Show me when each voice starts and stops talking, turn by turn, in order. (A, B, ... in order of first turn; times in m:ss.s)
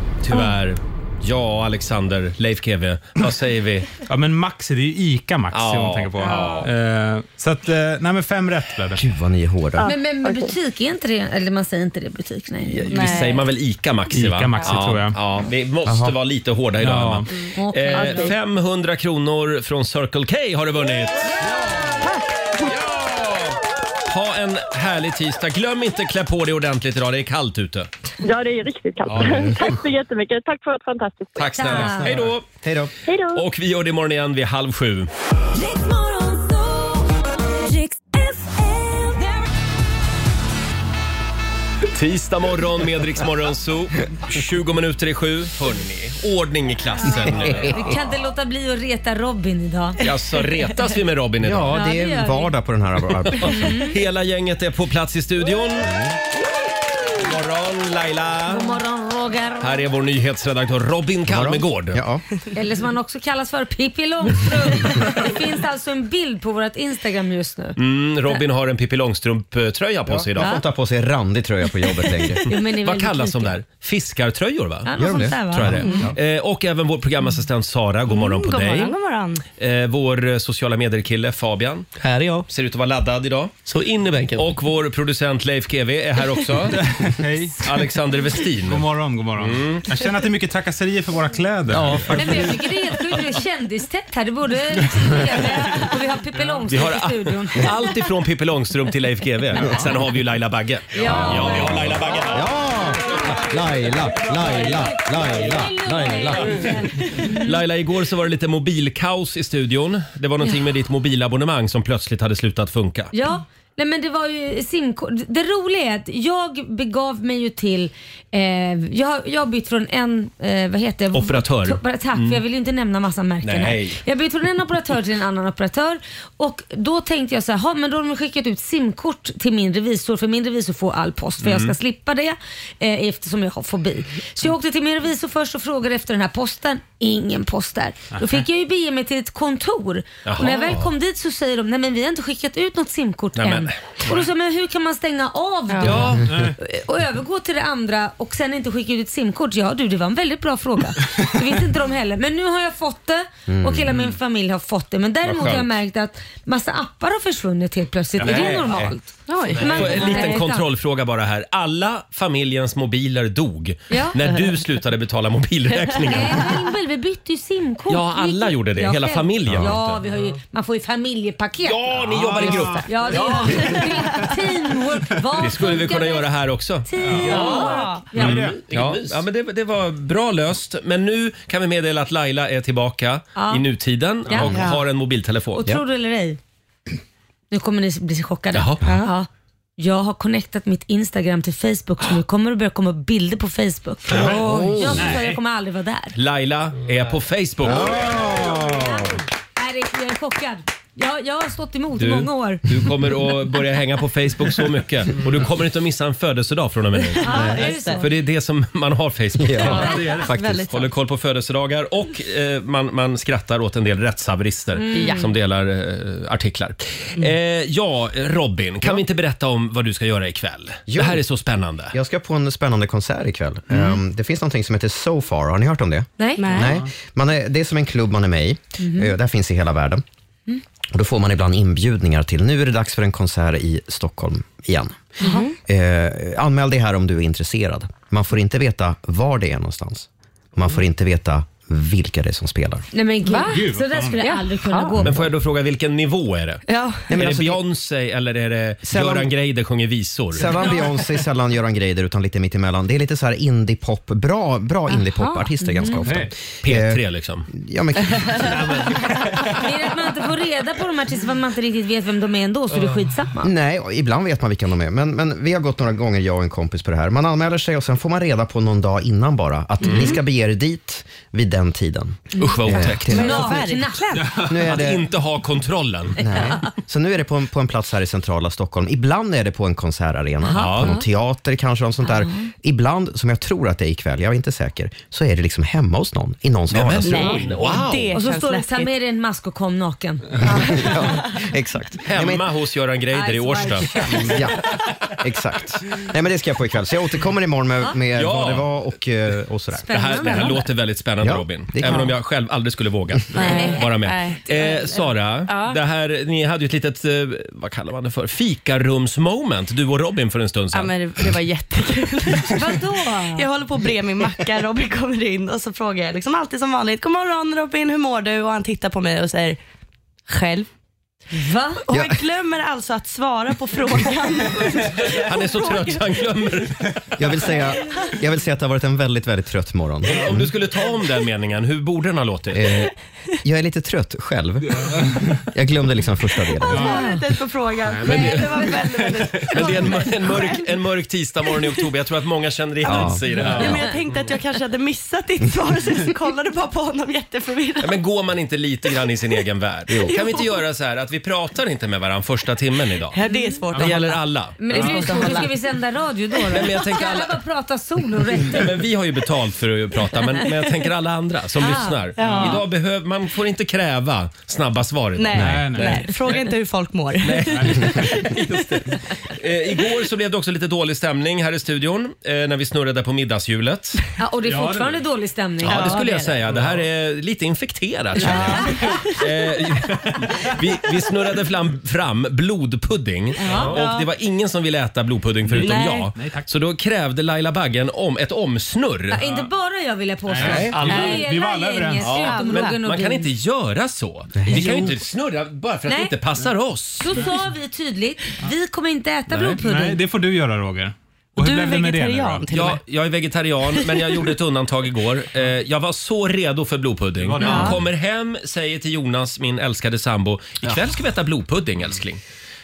0:00.2-0:04.0 A
0:04.1-0:09.0 B
0:05.5-0:06.6 A
0:06.2-0:06.7 C
0:08.9-0:09.9 D
0:09.8-0:13.3 E
0:10.2-0:10.5 F
0:12.7-0:21.3 A
0:12.9-0:13.4 C
0:14.1-0:15.2 B
0:15.8-0:16.1 D
0:16.8-0:17.3 B
0:17.6-0:18.3 E
0:17.9-0:18.3 F
0:22.6-0:27.9 A
0:28.2-0:31.5 F
0:29.1-0:29.5 A
0:31.4-0:32.4 A
0:31.5-0:32.1 E
0:32.6-0:32.9 D
0:33.1-0:33.4 F
0:33.3-0:35.1 A
0:35.5-0:39.5 G
0:41.9-0:47.8 A
0:47.0-0:50.0 E
0:47.3-0:47.9 D
0:50.0-0:51.8 A
0:51.4-0:53.7 D
0:51.7-0:52.5 E
0:53.2-0:55.9 A
0:53.4-0:54.0 E
0:55.8-0:56.2 D
0:57.1-0:58.8 A
0:58.5-0:59.8 E
0:59.6-1:02.0 A
1:01.2-1:02.2 D
1:02.5-1:07.8 E
1:07.8-1:10.6 A
1:10.0-1:12.4 D
1:12.4-1:13.6 E
1:12.6-1:19.0 A
1:14.8-1:16.0 E
1:15.0-1:16.1 D
1:15.7-1:16.1 C
1:18.1-1:19.4 C
1:19.6-1:21.9 A
1:22.0-1:22.5 H
1:22.5-1:23.6 A
1:23.6-1:24.5 H
1:24.4-1:26.8 A
1:26.7-1:27.7 B
1:27.6-1:29.8 A
1:28.6-1:32.7 B
1:31.7-1:32.1 D
1:32.1-1:37.8 E
1:36.7-1:42.5 A
1:39.6-1:39.9 B
1:41.0-1:42.0 B
1:41.0-1:41.6 E
1:42.3-1:46.7 D
1:44.6-1:47.5 E
1:47.2-1:53.1 A
1:53.1-2:40.6 E
2:01.1-2:02.4 A
2:03.4-2:04.0 A
2:11.4-2:11.8 A
2:20.2-2:20.9 A
2:23.4-2:23.8 A
2:25.7-2:26.1 C
2:25.9-2:26.3 D
2:26.0-2:26.5 B
2:33.5-2:34.0 D
2:35.2-2:35.8 A
2:38.2-2:38.9 B
2:38.2-2:38.9 A
2:39.3-2:40.4 C
2:39.6-2:46.5 A
2:43.9-2:44.1 E
2:44.2-2:44.5 C
2:46.0-2:56.3 E
2:47.9-2:50.0 A
2:49.4-2:49.7 D
2:51.6-2:53.5 A
2:52.1-2:53.9 B
2:53.1-2:53.6 C
2:55.4-3:05.7 A
2:56.8-2:58.4 E
2:57.0-2:58.6 B
2:57.2-2:58.2 C
2:58.6-2:59.2 H
3:03.4-3:03.6 E
3:04.4-3:04.8 C
3:05.6-3:06.4 E
3:07.5-3:16.1 E
3:08.5-3:08.8 A
3:08.8-3:09.1 C
3:14.1-3:15.4 B
3:14.2-3:15.2 D
3:16.1-3:18.0 A
3:17.6-3:19.1 D
3:18.5-3:19.1 E
3:19.6-3:22.6 E
3:22.0-3:41.9 A
3:27.0-3:28.0 C
3:27.2-3:28.1 E
3:27.3-3:27.6 D
3:29.4-3:30.5 D
3:29.6-3:30.9 C
3:29.7-3:30.2 E
3:34.7-3:35.3 E
3:34.9-3:35.3 C
3:40.9-3:41.2 D
3:41.9-3:50.0 D
3:46.2-3:46.6 E
3:46.4-3:46.8 C
3:48.8-3:49.1 E
3:50.9-3:55.1 D
3:55.2-3:55.5 E
3:55.2-3:55.5 C
3:55.7-4:02.8 D
4:02.9-4:05.2 E
4:03.2-4:05.0 C
4:03.5-4:04.2 B
4:05.0-4:10.6 A
4:06.7-4:07.1 C
4:07.1-4:07.6 D
4:08.8-4:09.3 D
4:10.3-4:18.9 D
4:14.9-4:15.6 C
4:16.0-4:16.3 B
4:16.6-4:17.5 A
4:18.4-4:19.5 B
4:19.4-4:23.5 E
4:23.4-4:33.6 D
4:29.8-4:30.2 C
4:32.4-4:33.4 A
4:33.0-4:34.4 C
4:33.1-4:34.3 E
4:34.3-4:35.1 D
4:34.6-4:36.4 A
4:36.2-4:47.5 D
4:40.4-4:41.0 E
4:40.5-4:40.9 A
4:42.0-4:42.5 E
4:46.7-4:48.2 A
4:47.0-4:48.9 C
4:48.1-4:50.9 E
4:50.4-4:52.4 D
4:52.0-4:54.0 A
4:53.1-4:54.4 E
4:54.0-5:00.3 D
4:58.1-4:58.7 A
4:59.8-5:00.7 E
4:59.9-5:10.9 A
5:01.2-5:02.1 D
5:03.3-5:05.8 C
5:03.4-5:03.8 E
5:10.7-5:19.6 C
5:12.5-5:13.4 E
5:20.3-5:20.7 C
5:21.3-5:21.8 E
5:21.8-5:26.3 C
5:21.9-5:22.2 D
5:25.0-5:26.9 A
5:27.2-5:30.5 D
5:30.0-5:32.7 A
5:32.5-5:37.0 D
5:36.6-5:40.6 C
5:36.8-5:37.2 E
5:38.0-5:39.0 B
5:38.1-5:38.8 E
5:38.1-5:38.4 A
5:39.5-5:43.9 A
5:42.8-5:43.2 D
5:42.8-5:48.0 C
5:43.3-5:43.9 B
5:47.8-5:53.2 A
5:50.1-5:50.4 C
5:53.1-5:55.5 C
5:53.3-5:53.6 E
5:53.7-5:55.0 A
5:54.6-5:58.7 E
5:56.5-5:57.4 A
5:58.4-6:06.0 A
6:01.6-6:02.0 E
6:02.2-6:02.6 C
6:02.2-6:02.6 B
6:05.2-6:08.6 C
6:05.3-6:06.1 B
6:07.2-6:14.0 A
6:07.5-6:07.9 B
6:14.2-6:16.0 E
6:14.5-6:15.0 B
6:15.6-6:16.4 C
6:15.6-6:29.2 A
6:18.2-6:19.0 B
6:18.2-6:19.1 C
6:23.4-6:24.1 C
6:23.4-6:23.7 E
6:23.5-6:23.8 B
6:25.5-6:26.4 B
6:25.5-6:26.1 C
6:29.1-6:33.3 E
6:30.3-6:32.3 B
6:30.4-6:31.2 A
6:32.0-6:37.1 A
6:32.3-6:32.7 C
6:34.4-6:34.9 D
6:34.5-6:34.9 B
6:35.9-6:36.1 E
6:37.0-6:40.0 E
6:39.3-6:39.6 A
6:39.6-6:42.4 B
6:41.4-6:42.8 C
6:42.5-6:52.2 A
6:44.0-6:44.3 C
6:47.2-6:47.8 B
6:47.4-6:47.8 C